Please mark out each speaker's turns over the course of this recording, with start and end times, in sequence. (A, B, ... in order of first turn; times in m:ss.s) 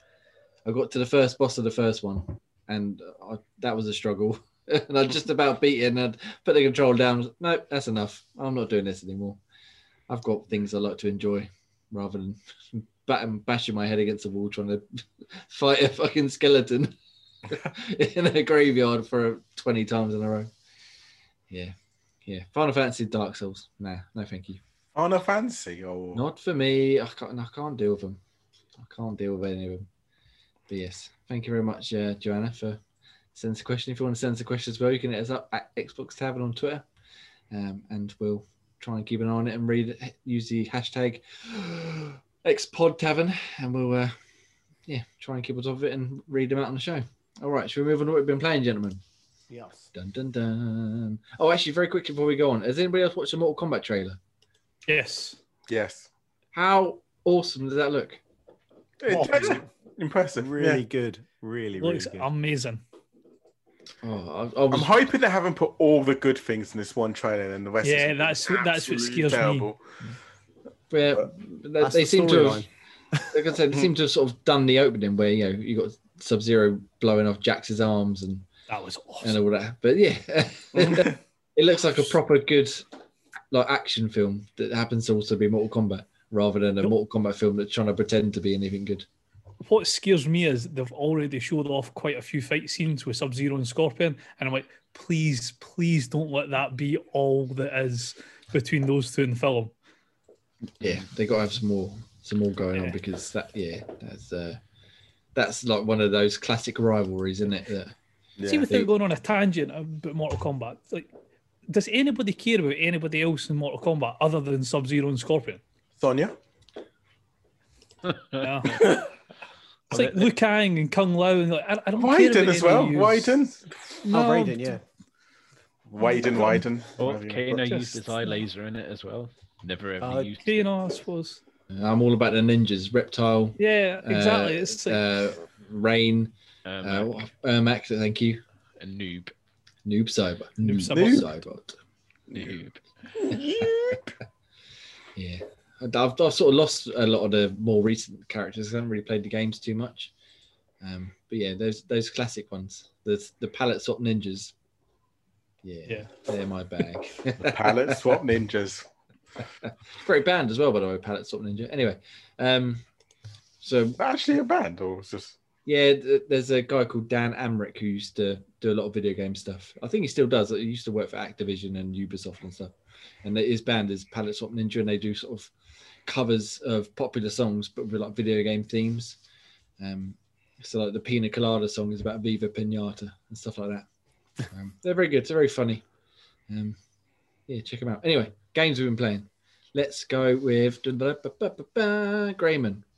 0:00.6-0:09.4 A
0:10.1-0:17.0 A
0:17.5-0:20.5 A
0:22.3-0:24.6 A
0:25.0-0:26.2 B
0:26.1-0:28.2 A
0:28.8-0:29.9 A
0:30.7-0:32.8 A
0:33.4-0:36.8 A
0:37.5-0:44.2 A
0:44.9-0:49.0 A
0:49.5-0:49.9 C
0:49.9-0:54.2 A
0:54.9-0:55.4 D
0:55.7-0:56.1 B
0:56.5-0:58.2 A
0:59.0-1:00.8 B
0:59.1-0:59.6 C
1:00.4-1:02.3 C
1:01.8-1:02.8 D
1:04.0-1:04.9 A
1:04.7-1:09.8 B
1:07.8-1:09.7 D
1:10.9-1:12.7 A
1:11.8-1:13.3 C
1:13.3-1:18.5 A
1:18.7-1:19.4 D
1:19.2-1:22.9 A
1:20.8-1:21.2 B
1:23.5-1:29.1 A
1:29.6-1:39.7 D
1:40.8-1:44.6 A
1:45.4-1:47.9 A
1:48.4-1:48.9 B
1:48.4-1:51.1 D
1:51.7-1:55.6 D
1:56.0-1:56.4 B
1:58.1-1:58.5 E
1:58.4-1:59.0 D
1:58.8-1:59.0 B
1:59.9-2:03.5 D
2:00.0-2:00.2 E
2:02.0-2:03.7 B
2:04.0-2:04.8 D
2:04.1-2:04.8 C
2:05.9-2:07.8 B
2:06.0-2:06.6 D
2:07.0-2:10.7 E
2:07.5-2:08.0 D
2:10.0-2:10.3 C
2:10.4-2:11.4 D
2:11.7-2:18.4 A
2:13.6-2:15.0 D
2:16.6-2:17.3 E
2:18.8-2:19.3 E
2:19.8-2:21.8 A
2:20.6-2:21.3 D
2:20.9-2:21.2 B
2:22.3-2:22.6 B
2:22.3-2:22.8 E
2:23.2-2:24.1 B
2:25.2-2:30.1 A
2:30.8-2:34.5 A
2:35.6-2:38.2 A
2:37.4-2:38.9 B
2:39.6-2:42.8 A
2:43.6-2:44.0 A
2:44.0-2:45.4 B
2:45.7-2:55.5 A
2:56.1-2:59.2 A
2:59.8-3:03.9 A
3:04.5-3:05.8 A
3:06.5-3:06.8 A
3:07.5-3:12.8 A